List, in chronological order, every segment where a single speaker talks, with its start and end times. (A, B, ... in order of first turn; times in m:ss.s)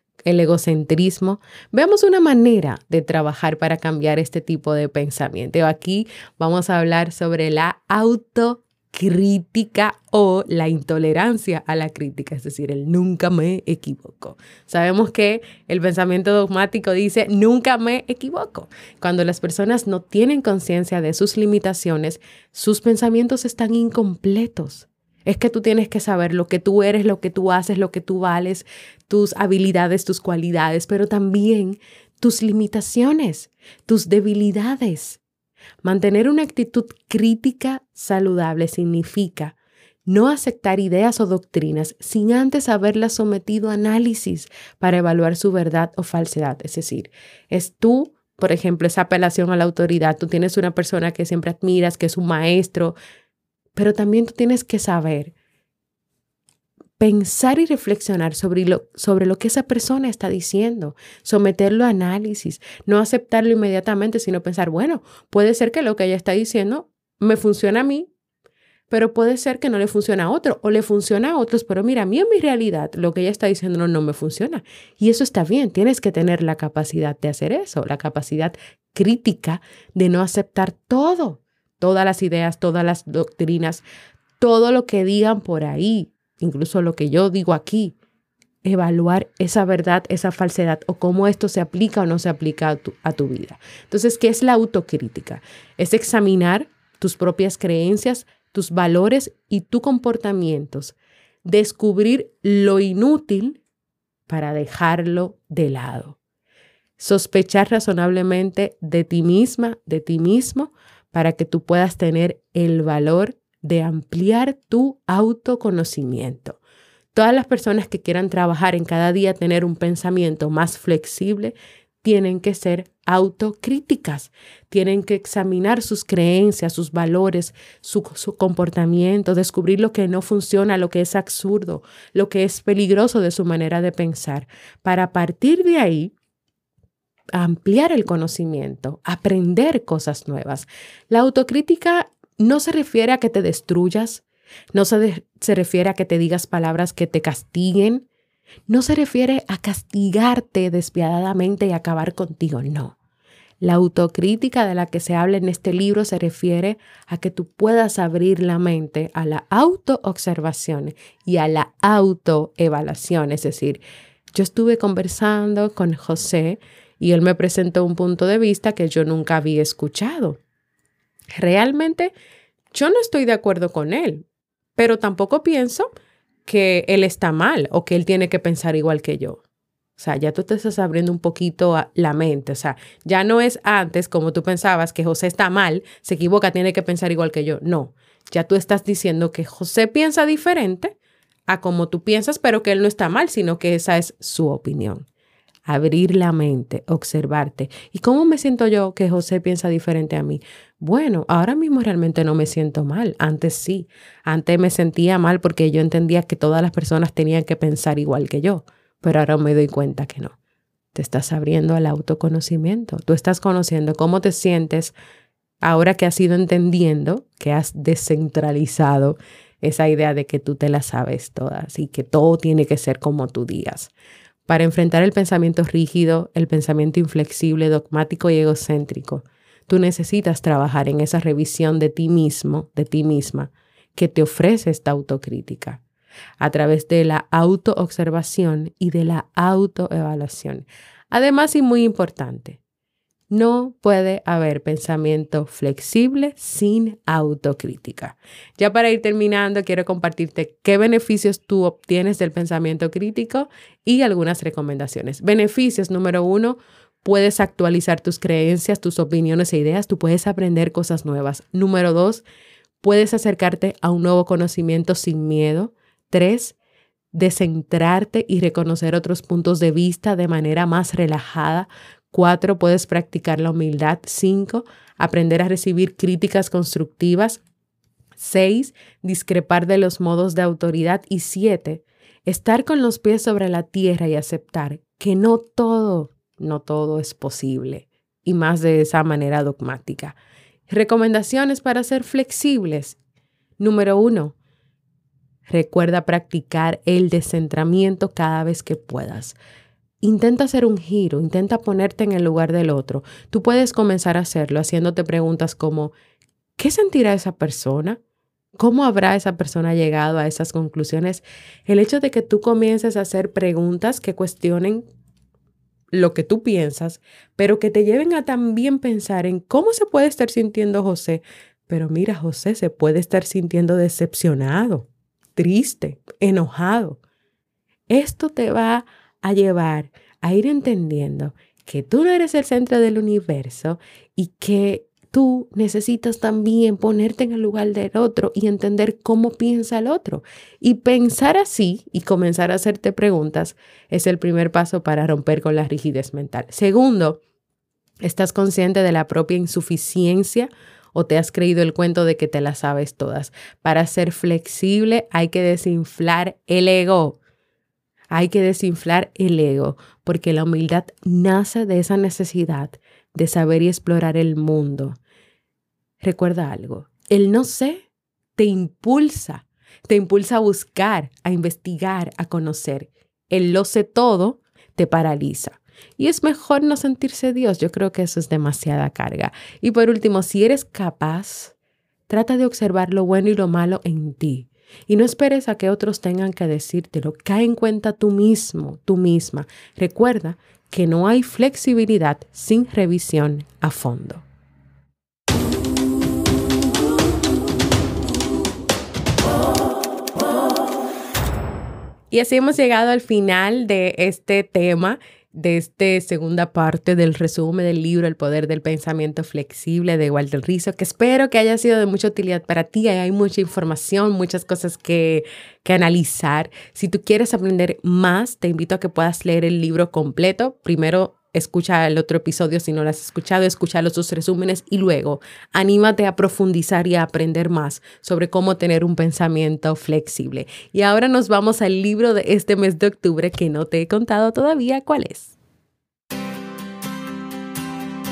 0:00.2-0:35.2 A
0:35.8-0:39.5 A
0:40.1-0:53.0 A
0:53.8-0:55.3 A
0:57.0-1:08.1 A
1:08.9-1:23.8 A
1:24.4-1:27.9 A
1:28.6-1:43.6 A
1:44.3-1:46.2 A
1:47.0-1:56.6 A
1:57.1-2:16.1 A
2:17.4-2:24.2 A
2:24.7-2:28.0 A
2:28.7-2:33.0 A
2:33.6-2:43.8 A
2:44.3-2:50.4 A
2:51.4-2:52.1 A
2:52.7-2:54.2 A
2:54.8-2:55.9 A
2:56.4-2:59.4 A
3:00.0-3:10.9 A
3:11.5-3:15.0 A
3:15.7-3:30.3 A
3:30.9-3:35.0 A
3:35.6-3:43.9 A
3:44.5-3:55.8 A
3:56.4-4:02.6 A
4:03.3-4:22.2 A
4:22.8-4:26.6 A
4:27.1-4:37.4 A
4:38.2-4:50.2 A
4:50.7-4:53.0 A
4:53.6-4:54.3 A
4:55.5-4:59.4 A
5:00.0-5:05.9 A
5:06.6-5:08.0 A
5:08.6-5:14.8 A
5:15.9-5:27.0 A
5:27.9-5:47.2 A
5:48.0-5:57.2 A
5:58.1-6:05.0 A
6:06.0-6:07.8 A
6:08.4-6:21.5 A
6:22.1-6:34.2 A
6:42.1-7:15.4 A